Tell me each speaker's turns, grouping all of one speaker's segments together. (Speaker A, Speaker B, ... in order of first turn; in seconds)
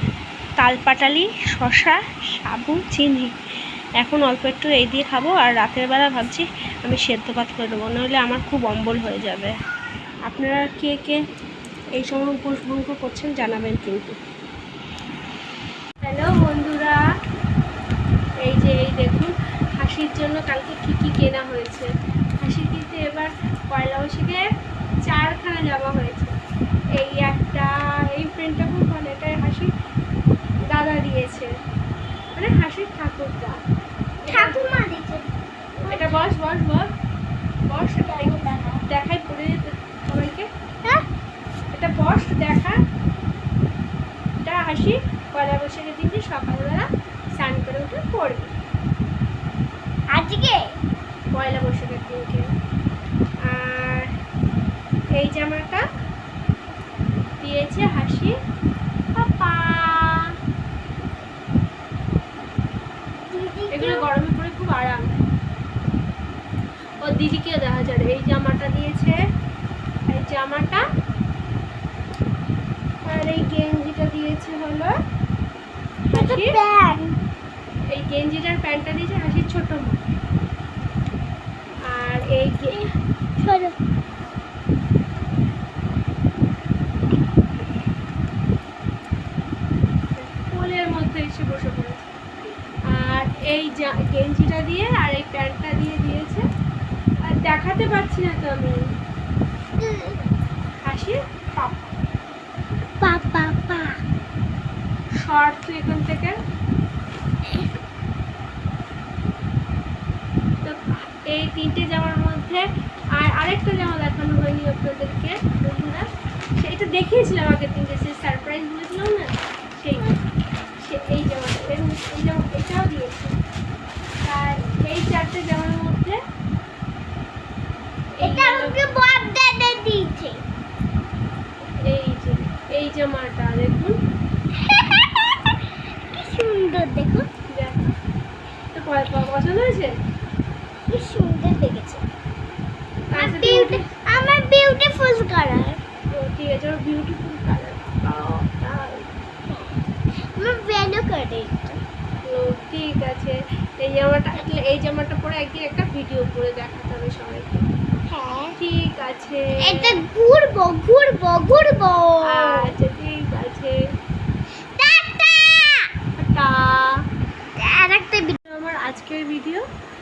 Speaker A: 0.6-3.3, 4.0-9.5, 10.3-11.2, 12.0-14.2, 16.0-17.0, 18.4-21.9, 22.4-24.4, 25.1-26.3, 27.0-29.7, 30.7-31.5, 32.4-33.6, 34.3-34.6, 35.9-36.9, 37.7-38.3, 38.9-40.5, 41.7-42.8, 44.4-48.5, 51.3-52.4, 53.5-54.1, 55.1-55.8, 57.4-58.3, 59.1-60.2, 63.7-65.1, 67.0-69.2, 70.1-70.8, 73.0-74.9, 76.1-76.5, 77.9-80.0, 81.9-82.8, 90.2-92.1, 92.9-96.4, 97.3-98.8, 100.8-101.9, 105.2-106.3, 111.3-112.6, 113.2-116.0, 116.6-120.0, 120.8-123.3, 124.2-126.2, 128.2-128.8, 131.8-134.0, 137.5-137.9, 138.7-139.9, 143.1-143.8, 146.1-149.0, 152.3-157.7, 158.6-160.0, 162.3-163.7, 166.2-166.9, 168.5-169.6
Speaker B: 34.3-36.2, 38.0-38.8, 50.1-50.6, 63.3-64.1, 76.1-77.2, 82.7-83.8, 99.8-100.3, 103.0-104.0, 128.2-130.4, 134.6-135.5, 136.1-137.3, 140.9-142.0, 143.1-145.8, 149.5-149.8, 150.3-151.8, 158.1-158.6, 159.6-162.7, 164.8-165.9, 167.6-168.4